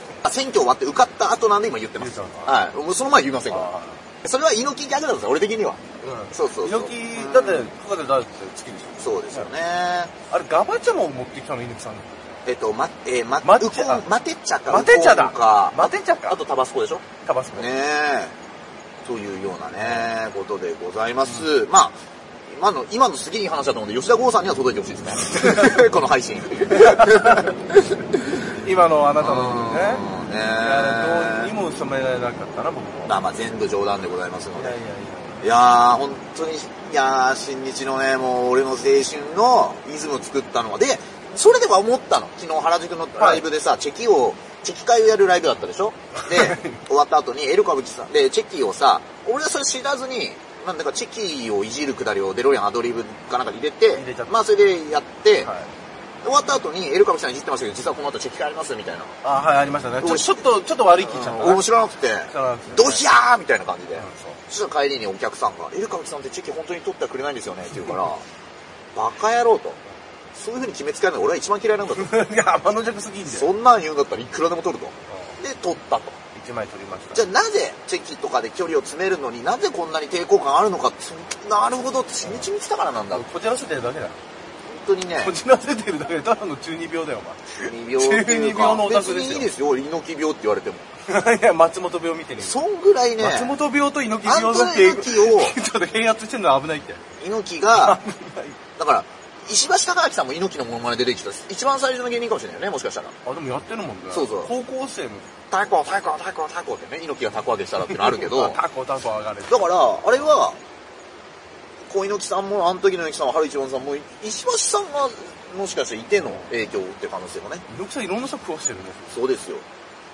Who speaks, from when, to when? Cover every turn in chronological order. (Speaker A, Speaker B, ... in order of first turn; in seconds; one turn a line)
Speaker A: 0.2-3.7
Speaker B: 2.0-2.5
Speaker B: 3.5-4.0
Speaker A: 4.2-7.7
Speaker B: 6.0-9.5
Speaker A: 9.0-10.1
Speaker B: 10.3-12.4
Speaker A: 12.5-18.4
Speaker B: 13.4-14.1
Speaker B: 14.7-16.4
Speaker B: 17.2-17.7
Speaker A: 19.1-27.8
Speaker B: 19.8-20.1
Speaker B: 25.3-25.9
Speaker B: 26.7-27.6
Speaker B: 28.4-30.1
Speaker A: 29.2-31.5
Speaker B: 30.6-33.1
Speaker A: 33.1-34.8
Speaker B: 34.6-35.5
Speaker A: 35.4-55.5
Speaker B: 43.2-43.5
Speaker B: 46.2-46.8
Speaker B: 54.0-54.3
Speaker B: 55.4-55.7
Speaker A: 56.2-59.2
Speaker B: 59.2-61.7
Speaker A: 60.0-68.3
Speaker B: 62.3-63.0
Speaker B: 64.0-64.4
Speaker A: 69.0-69.8
Speaker A: 70.3-72.3
Speaker B: 71.9-73.5
Speaker A: 73.3-76.2
Speaker B: 75.1-75.4
Speaker B: 76.3-77.3
Speaker A: 77.1-83.3
Speaker B: 82.2-82.5
Speaker B: 83.1-84.2
Speaker A: 84.7-85.4
Speaker B: 85.2-89.5
Speaker A: 87.6-90.9
Speaker B: 91.0-92.6
Speaker A: 92.4-93.6
Speaker B: 93.2-97.0
Speaker A: 94.2-95.6
Speaker A: 97.2-98.0
Speaker B: 97.8-98.6
Speaker A: 98.8-103.2
Speaker B: 103.2-105.3
Speaker A: 104.1-104.5
Speaker A: 105.5-108.6
Speaker B: 107.8-109.8
Speaker A: 109.5-110.6
Speaker A: 111.9-117.7
Speaker B: 116.2-116.5
Speaker B: 117.7-119.1
Speaker A: 119.1-119.7